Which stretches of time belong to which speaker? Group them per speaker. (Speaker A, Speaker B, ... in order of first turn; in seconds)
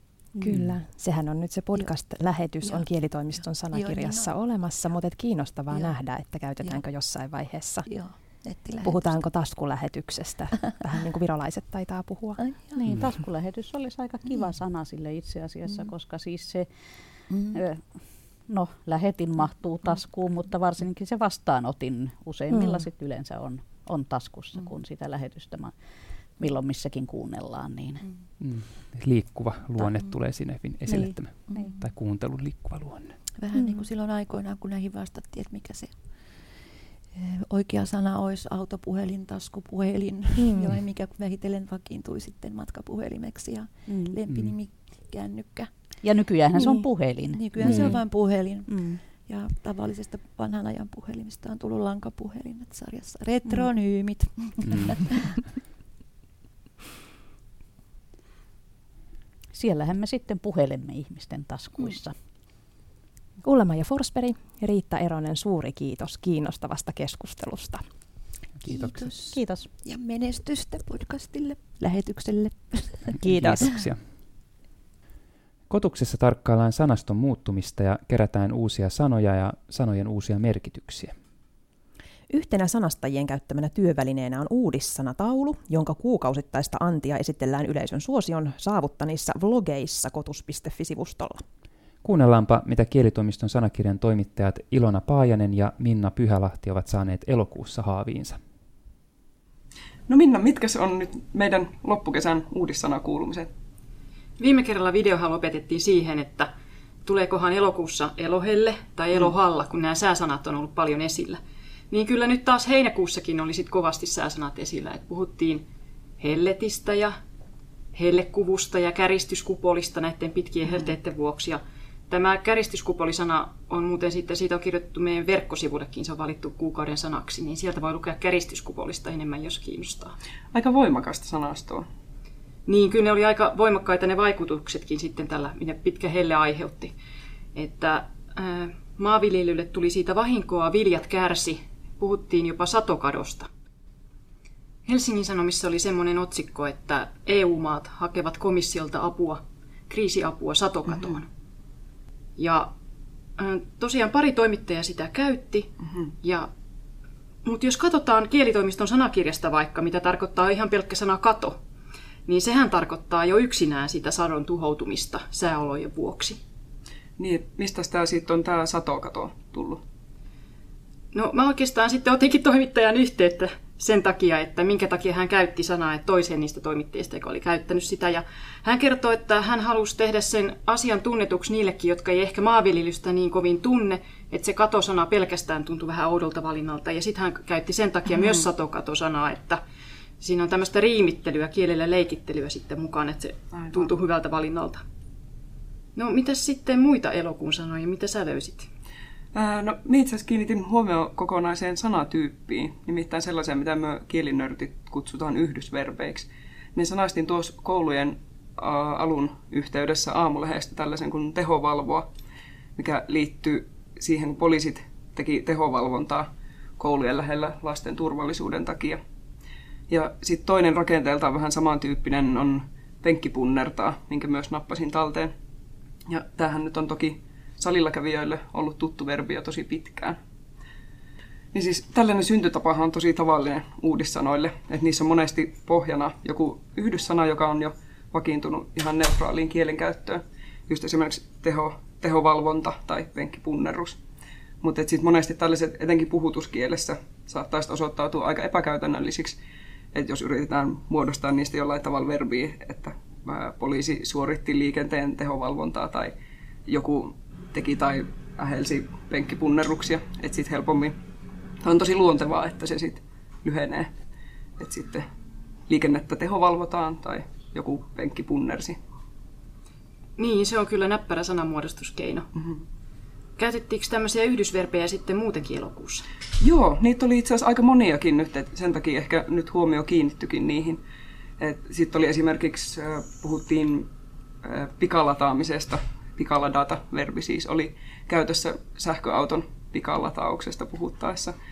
Speaker A: 0.4-7.9, 8.8-12.4, 63.4-67.8, 73.2-73.8, 82.3-91.4
Speaker B: 2.6-4.3, 7.9-9.2, 12.4-12.8, 17.3-17.6, 29.8-30.1, 31.5-31.9, 33.4-36.0, 37.1-45.7, 46.7-55.4, 68.6-73.2
Speaker C: 12.8-16.7, 17.5-17.8, 18.5-25.7, 26.4-28.0, 43.9-44.2, 46.0-47.9, 48.7-49.0, 59.5-62.1, 69.3-69.7
Speaker D: 28.4-33.2, 44.3-44.5, 47.6-48.0, 54.6-54.9, 73.1-74.0, 75.7-81.1, 92.0-98.4
Speaker E: 100.1-103.5, 130.5-131.9, 167.2-169.8, 193.5-193.9, 199.3-212.1, 212.8-219.0, 219.9-225.3, 226.1-230.2, 231.5-244.0, 244.6-249.4, 249.9-256.1, 256.7-260.9, 261.6-263.9, 264.6-265.1, 265.7-268.8, 272.4-272.6, 276.4-280.8, 281.4-283.9, 284.4-291.4
Speaker F: 104.4-106.5, 107.1-111.4, 111.9-115.6, 116.2-117.1, 118.0-130.1, 132.7-136.9, 137.6-143.5, 144.9-151.3, 152.4-152.7, 153.4-155.7, 156.2-156.5, 157.5-161.6, 162.3-166.4, 171.1-189.6, 190.2-194.8, 196.0-198.7, 270.2-272.3, 273.4-276.1